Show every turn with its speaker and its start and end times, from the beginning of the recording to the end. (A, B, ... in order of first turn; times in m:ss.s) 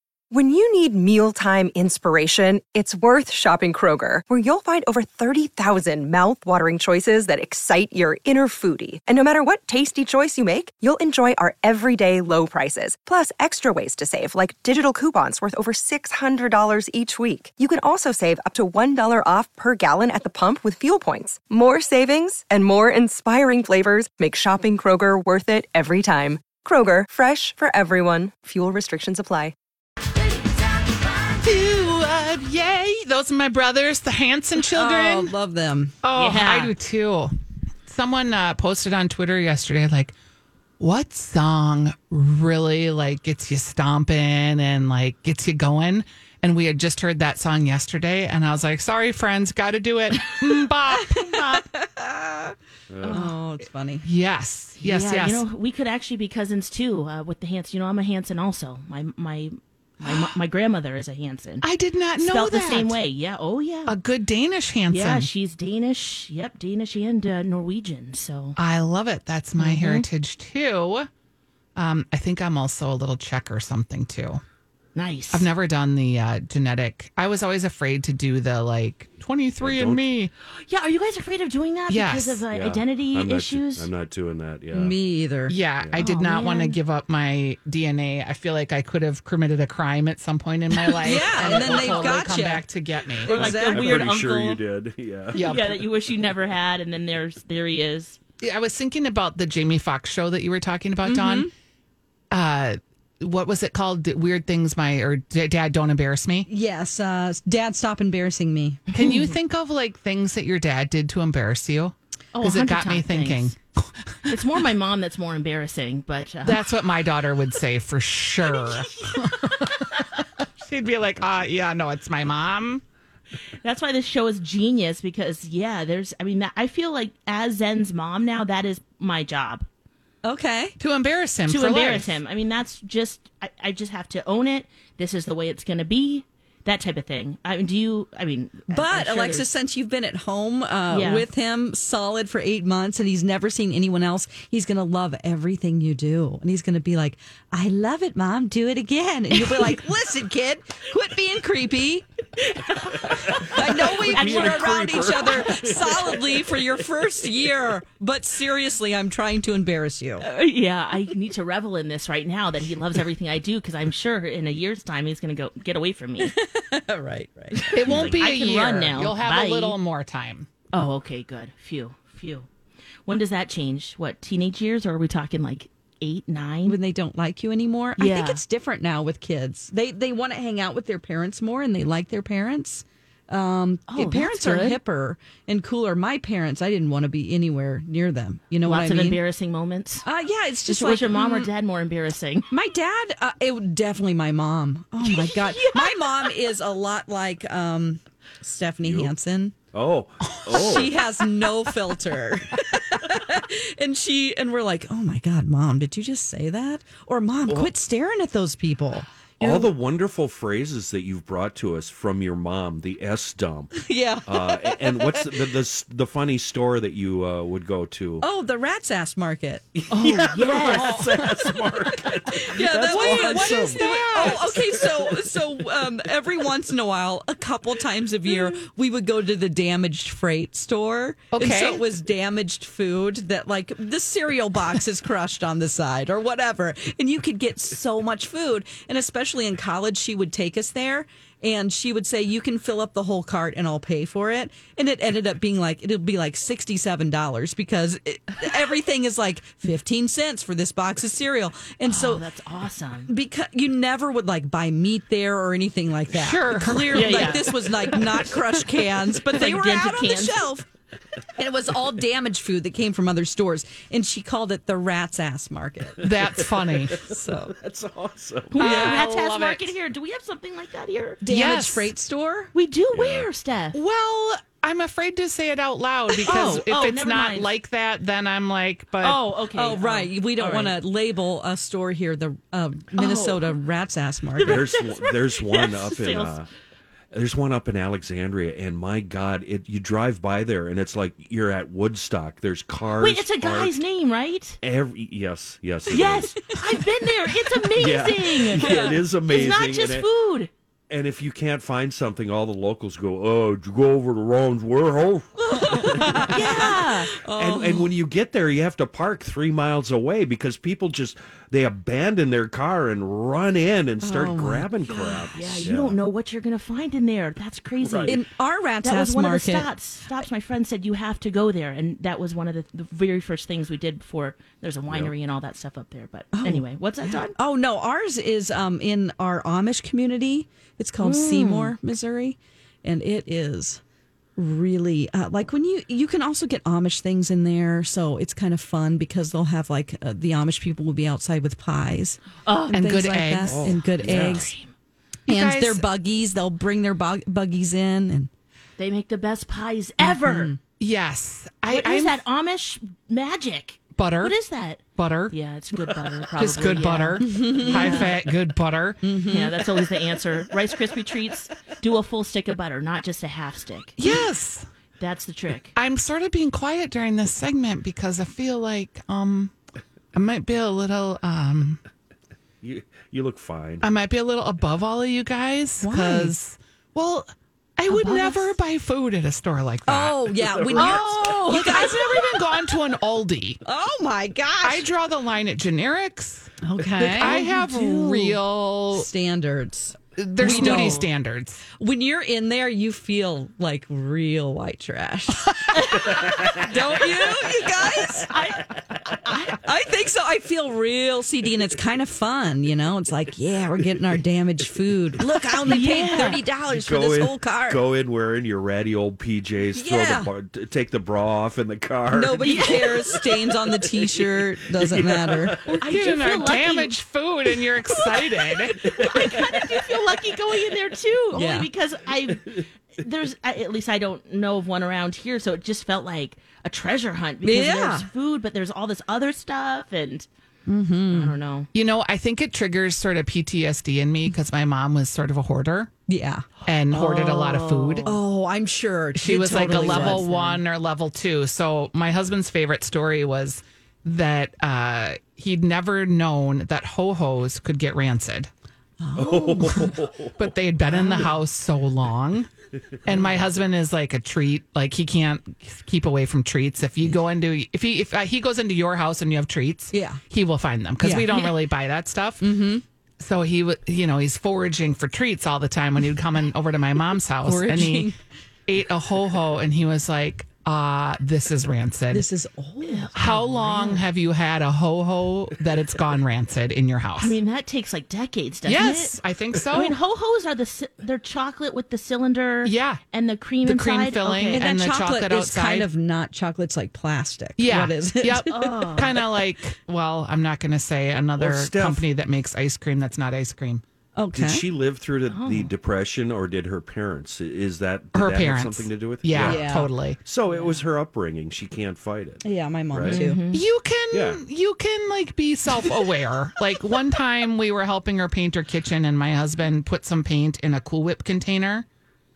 0:00.3-0:29.5 A
0:31.4-0:35.3 B
0:34.7-0:36.0 C
0:36.0-0:37.3 B
0:36.1-0:36.7 D
0:37.9-0:40.1 B
0:40.8-0:51.2 B
0:50.9-0:52.5 C
0:51.2-0:51.6 D
0:52.9-0:53.2 E
0:53.0-0:53.3 D
0:53.1-0:54.0 C
0:54.0-0:55.4 B
0:54.8-1:01.6 D
1:00.0-1:00.3 B
1:01.6-1:03.0 B
1:02.2-1:03.9 D
1:03.9-1:05.3 B
1:04.9-1:08.6 D
1:08.6-1:11.1 B
1:09.6-1:10.0 D
1:11.8-1:14.4 B
1:14.9-1:15.5 D
1:15.3-1:20.3 B
1:19.6-1:20.0 E
1:20.6-1:23.9 D
1:21.9-1:22.4 B
1:22.5-1:25.0 E
1:24.7-1:25.6 C
1:25.5-1:33.3 B
1:26.0-1:26.8 D
1:30.9-1:32.7 C
1:31.2-1:32.4 D
1:33.2-1:34.0 C
1:33.2-1:34.6 D
1:33.3-1:35.7 E
1:35.3-1:38.2 D
1:35.3-1:35.7 B
1:38.4-1:41.5 B
1:41.0-1:41.5 C
1:42.3-1:46.4 B
1:46.5-1:48.8 C
1:48.9-1:54.4 B
1:52.3-1:53.5 D
1:54.2-1:56.7 D
1:56.4-2:00.0 B
1:58.5-1:59.6 D
2:00.6-2:02.8 B
2:03.6-2:09.6 D
2:10.2-2:10.8 C
2:10.8-2:12.2 B
2:11.5-2:19.5 D
2:18.7-2:32.0 C
2:20.9-2:21.2 D
2:29.4-2:29.8 D
2:32.4-2:36.2 D
2:33.1-2:36.4 E
2:33.4-2:40.2 C
2:40.2-2:46.3 D
2:46.2-2:48.1 C
2:47.5-2:49.8 D
2:47.7-2:50.5 B
2:50.7-2:52.5 D
2:53.0-2:56.8 D
2:56.6-3:09.2 C
2:58.0-2:58.4 D
3:03.9-3:04.8 D
3:08.6-3:10.0 D
3:10.0-3:11.5 C
3:10.7-3:12.5 D
3:12.5-3:19.6 C
3:15.0-3:16.3 D
3:18.8-3:19.1 E
3:19.7-3:21.0 E
3:20.3-3:20.8 B
3:20.5-3:29.7 C
3:29.4-3:38.2 E
3:33.7-3:35.6 C
3:38.2-3:39.8 C
3:39.8-3:45.6 E
3:39.9-3:41.5 D
3:42.3-4:12.2 C
3:42.8-3:44.5 B
3:51.3-3:51.8 B
4:11.8-4:13.1 D
4:13.1-4:20.7 C
4:16.1-4:17.3 B
4:16.9-4:18.3 D
4:19.3-4:20.5 D
4:21.4-4:26.1 C
4:26.0-4:27.0 B
4:26.1-4:29.0 E
4:26.9-4:27.5 C
4:28.5-4:31.2 D
4:28.6-4:29.7 B
4:31.2-4:32.5 C
4:31.3-4:31.9 B
4:32.5-4:33.8 D
4:32.9-4:33.3 E
4:33.7-4:39.2 B
4:36.2-4:37.5 D
4:39.0-4:40.8 D
4:39.6-4:44.7 C
4:42.9-4:43.6 D
4:44.4-4:46.4 D
4:44.4-4:46.5 E
4:47.1-4:53.8 E
4:53.0-4:54.6 D
4:54.6-4:56.5 E
4:55.9-5:00.5 D
4:57.8-5:00.1 E
4:58.6-4:59.0 C
5:00.9-5:06.6 E
5:05.5-5:07.9 C
5:05.9-5:07.2 D
5:07.2-5:16.0 E
5:14.0-5:14.7 C
5:14.9-5:18.2 D
5:15.4-5:15.6 C
5:17.8-5:18.2 E
5:18.0-5:19.7 C
5:18.8-5:27.4 D
5:24.9-5:25.1 E
5:26.3-5:33.8 C
5:31.0-5:31.7 D
5:34.4-5:44.5 C
5:42.4-5:42.8 D
5:42.7-5:43.7 B
5:43.4-5:44.5 E
5:43.9-5:44.7 D
5:45.3-5:45.8 B
5:45.3-5:48.3 C
5:48.8-5:50.5 D
5:50.2-5:50.6 C
5:50.8-5:52.2 B
5:51.7-5:58.2 D
5:54.0-5:54.4 B
5:54.9-5:55.3 B
5:56.4-5:59.0 B
5:57.2-5:58.1 C
5:59.0-5:59.6 C
5:59.3-6:04.2 D
6:04.0-6:04.6 B
6:05.0-6:05.7 D
6:05.7-6:09.5 B
6:10.1-6:11.8 B
6:12.6-6:13.9 E
6:13.8-6:20.3 B
6:15.8-6:16.3 C
6:17.9-6:18.5 D
6:19.9-6:22.3 C
6:20.4-6:21.5 E
6:20.8-6:21.1 D
6:21.5-6:23.6 B
6:23.6-6:24.8 C
6:24.6-6:29.1 B
6:26.6-6:28.3 C
6:27.0-6:27.9 D
6:28.9-6:31.0 C
6:30.2-6:31.6 B
6:30.4-6:31.1 D
6:31.8-6:35.5 C
6:35.7-6:36.3 D
6:36.1-6:36.6 E
6:36.4-6:38.3 C
6:38.1-6:39.6 D
6:39.5-6:47.8 C
6:45.6-6:46.4 D
6:46.7-6:55.8 E
6:49.7-6:50.3 C
6:52.1-6:55.7 C
6:52.4-6:53.2 D
6:55.8-6:58.9 B
6:55.8-6:56.9 D
6:58.8-7:10.3 D
6:59.0-6:59.8 E
7:01.3-7:01.7 C
7:07.4-7:08.1 C
7:10.7-7:11.4 C
7:11.1-7:11.7 D
7:11.7-7:15.9 B
7:16.1-7:20.6 C
7:16.6-7:18.1 B
7:17.3-7:18.2 D
7:19.1-7:28.5 B
7:19.5-7:20.4 D
7:29.0-7:30.0 C
7:29.2-7:30.5 E
7:30.4-7:32.5 B
7:30.9-7:31.3 C
7:33.0-7:42.4 B
7:39.9-7:40.2 C
7:41.0-7:41.3 C
7:41.3-7:41.5 D
7:42.4-7:42.8 C
7:43.2-7:48.1 B
7:47.4-7:48.2 C
7:48.7-7:52.2 B
7:52.1-7:53.1 C
7:52.8-7:54.0 D
7:53.1-7:57.4 B
7:57.2-7:59.2 D
7:58.6-8:00.0 B
7:59.7-8:04.7 D
8:02.6-8:03.0 B
8:03.6-8:05.9 B
8:04.5-8:09.2 C
8:07.6-8:13.8 B
8:08.5-8:09.2 D
8:11.4-8:12.1 E
8:14.2-8:14.6 C
8:14.3-8:23.2 E
8:15.3-8:15.7 D
8:18.1-8:20.2 B
8:19.3-8:19.9 C
8:20.5-8:20.8 D
8:22.4-8:23.4 C
8:23.0-8:23.6 D
8:23.5-8:31.8 B
8:24.1-8:24.4 E